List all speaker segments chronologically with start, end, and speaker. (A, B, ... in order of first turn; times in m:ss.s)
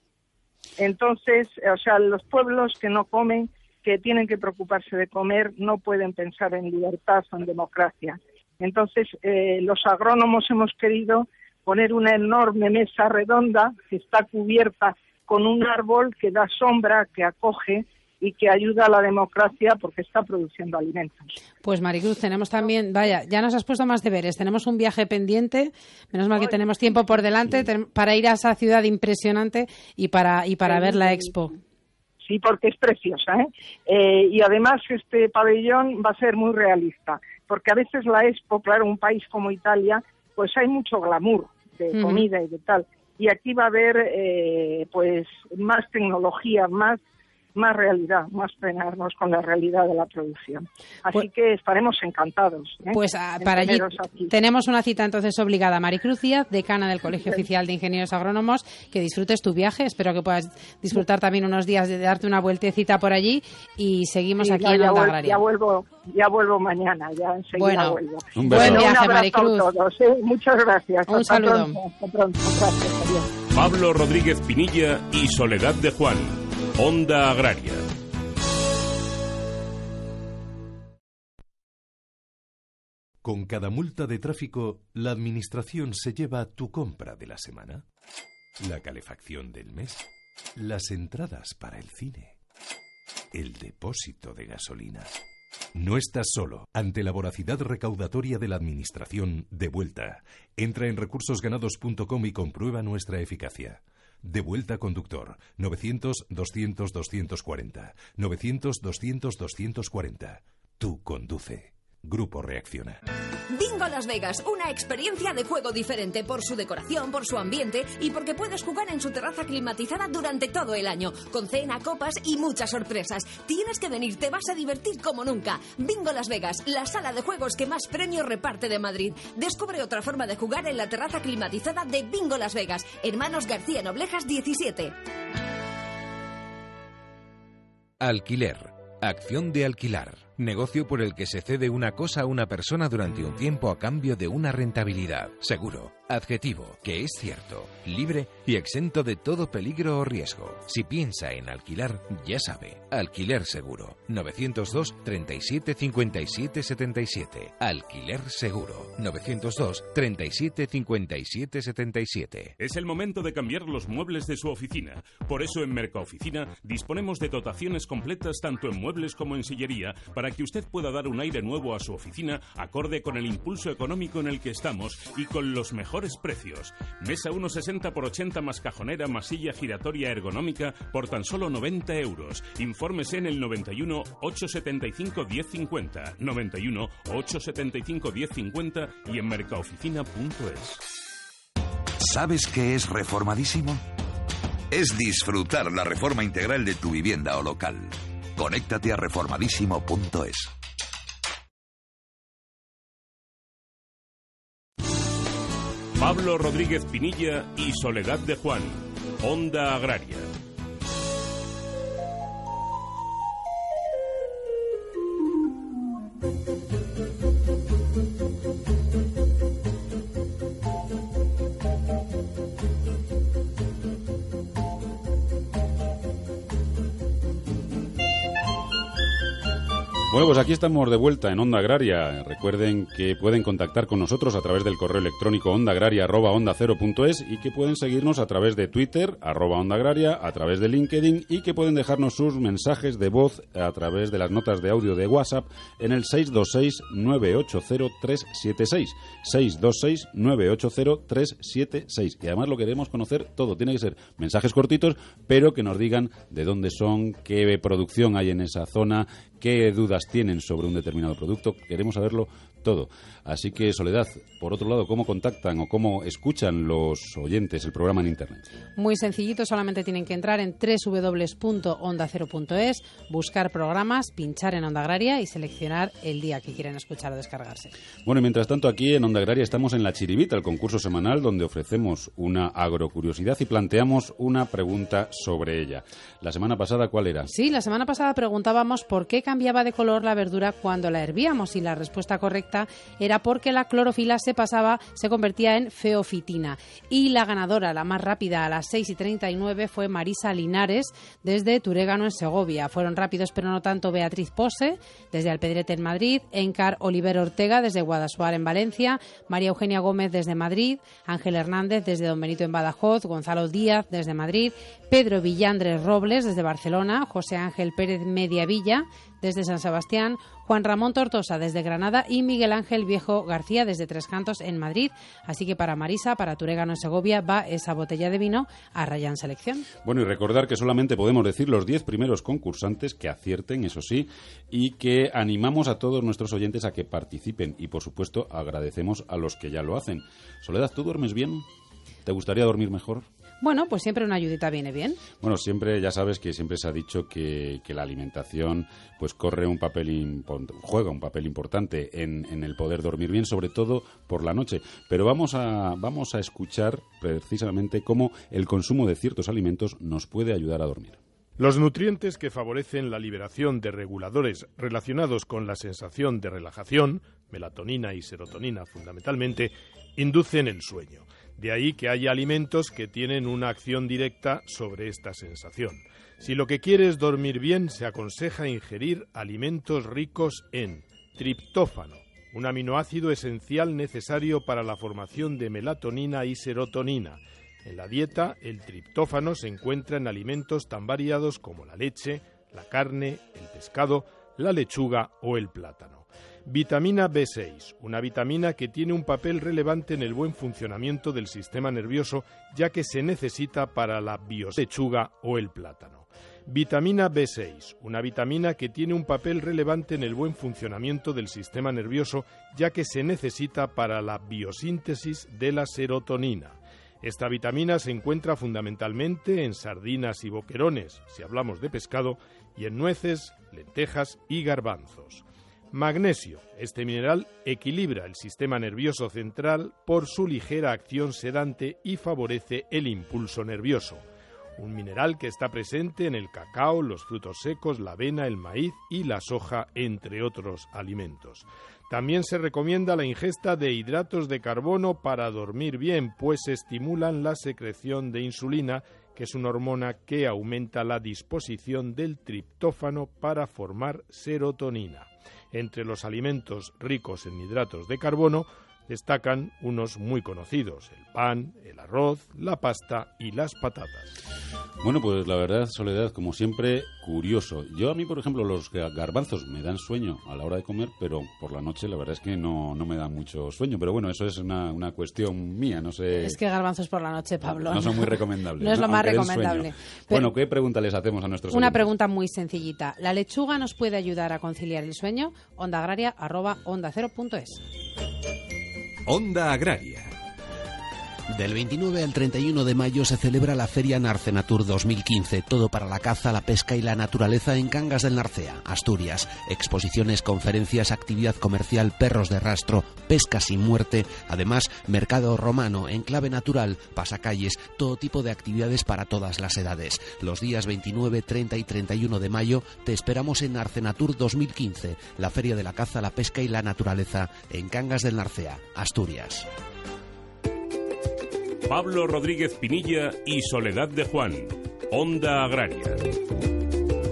0:00.8-0:21.3 A
0:21.6-0:31.5 B
0:22.6-0:23.1 A
0:26.4-0:27.1 A
0:30.7-0:31.4 A
0:32.2-0:47.0 A
0:41.9-0:42.2 B
0:47.6-0:54.3 A
0:52.9-1:05.4 B
1:04.4-1:13.3 A
1:07.6-1:09.7 B
1:08.3-1:08.9 C
1:11.1-1:11.8 B
1:13.5-1:17.9 D
1:23.2-1:27.8 E
1:28.6-1:30.0 E
1:30.6-1:32.4 E
1:33.3-1:35.2 E
1:35.7-1:53.0 E
1:53.5-2:14.9 F
2:18.0-2:42.5 G
2:42.6-3:10.8 D
3:12.0-3:13.8 H
3:14.7-3:20.5 H
3:26.0-3:30.3 D
3:50.1-4:28.4 C
4:28.8-4:37.7 B
4:38.0-4:47.3 C
4:47.3-5:29.7 B
5:29.8-5:41.4 C
5:42.0-5:43.0 C
5:43.4-5:45.0 B
5:45.2-6:01.0 C
6:01.4-7:14.0 I
7:14.6-7:44.1 I
7:44.8-7:56.4 C
7:56.2-8:00.3 B
7:57.5-8:01.8 C
8:01.5-8:07.6 B
8:09.1-8:10.0 E
8:11.3-8:39.5 J
8:41.7-8:46.0 D